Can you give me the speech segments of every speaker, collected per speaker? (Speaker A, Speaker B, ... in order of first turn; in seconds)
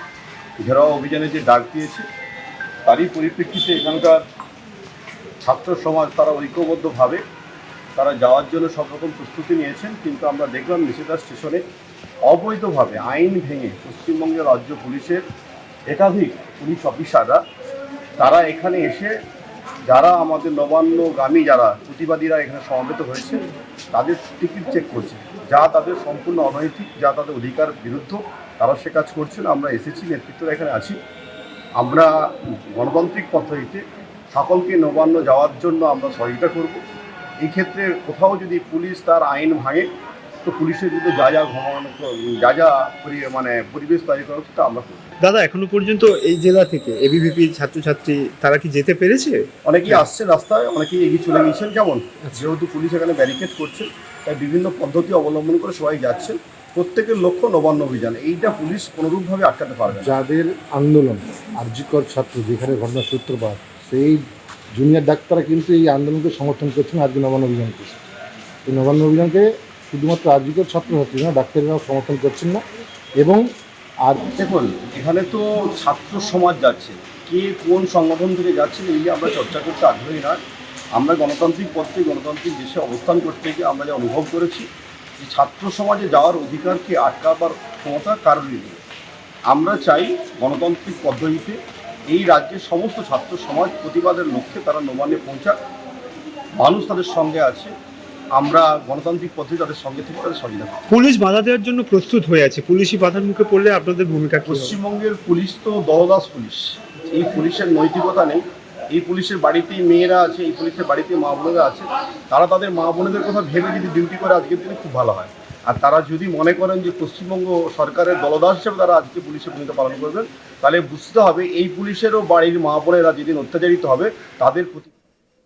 Speaker A: 0.6-2.0, 2.9-4.2, 5.4-7.2, 8.0-11.6, 12.2-15.2, 15.9-17.4, 18.2-19.1, 19.9-31.0, 31.8-32.1, 32.7-33.8, 34.3-36.8, 37.4-39.9, 40.4-45.1, 49.6-60.1, 74.3-80.4, 80.9-84.7, 85.2-88.8, 89.5-91.6, 92.1-95.5, 96.6-97.7, 98.3-100.8, 104.4-124.9
Speaker B: 45.2-50.0, 100.9-104.8
Speaker C: 59.9-64.2, 64.8-68.0, 68.7-72.6